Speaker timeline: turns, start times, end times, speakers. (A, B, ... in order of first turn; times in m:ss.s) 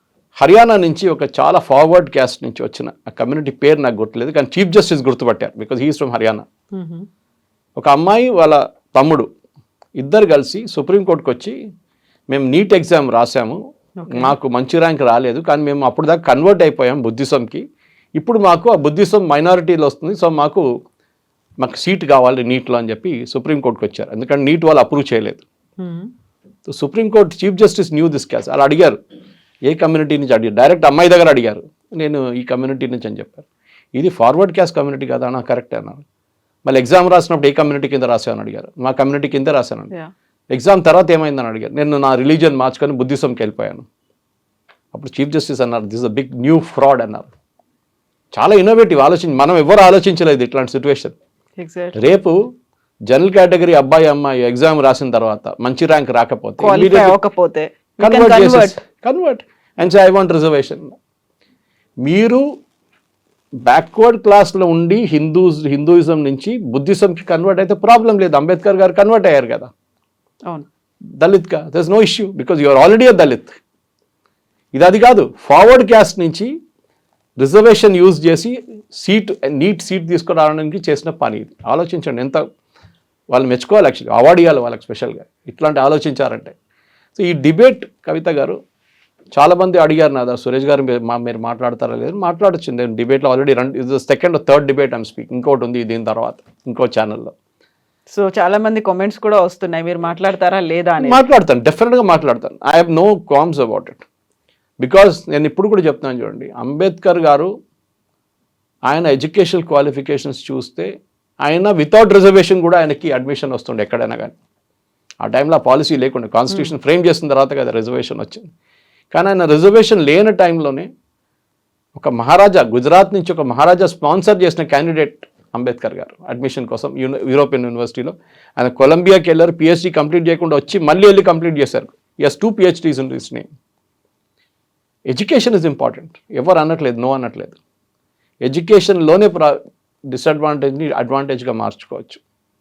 0:00.4-0:06.4 A
0:06.7-0:07.0 B
0:07.8-0:09.3 A
0:10.0-0:11.6 A
0:12.3-0:13.6 A
0:14.0-0:14.3 B
0:14.1-0:17.6 A
0:18.2-0:20.6 A
0:21.6-0:25.4 A
0:25.8-0:26.1 B
0:26.7-0:29.0 A
0:29.7-0:36.0 A
0:36.6-0:39.9 A
0:40.5-0:43.8 A
0:44.9-0:47.3 A
0:48.3-0:51.2 A
0:51.6-0:52.0 B
0:52.0-0:52.4 A
0:53.1-0:57.2 A
0:56.6-0:58.8 B
0:58.0-1:00.9 A
1:02.0-1:02.4 A
1:03.6-1:09.7 A
1:11.2-1:13.6 A
1:14.7-1:16.5 A
1:17.4-1:22.4 A
1:23.3-1:26.5 A
1:27.1-1:28.6 A
1:29.3-1:37.3 A
1:38.1-1:41.2 B
1:41.0-1:44.0 A
1:44.8-1:47.5 A
1:48.9-1:50.9 A
1:51.4-1:54.3 A
1:55.2-1:58.4 A
1:59.1-2:00.9 A
2:01.9-2:13.5 A
2:15.1-2:17.6 A
2:18.4-2:19.6 A
2:20.1-2:22.2 A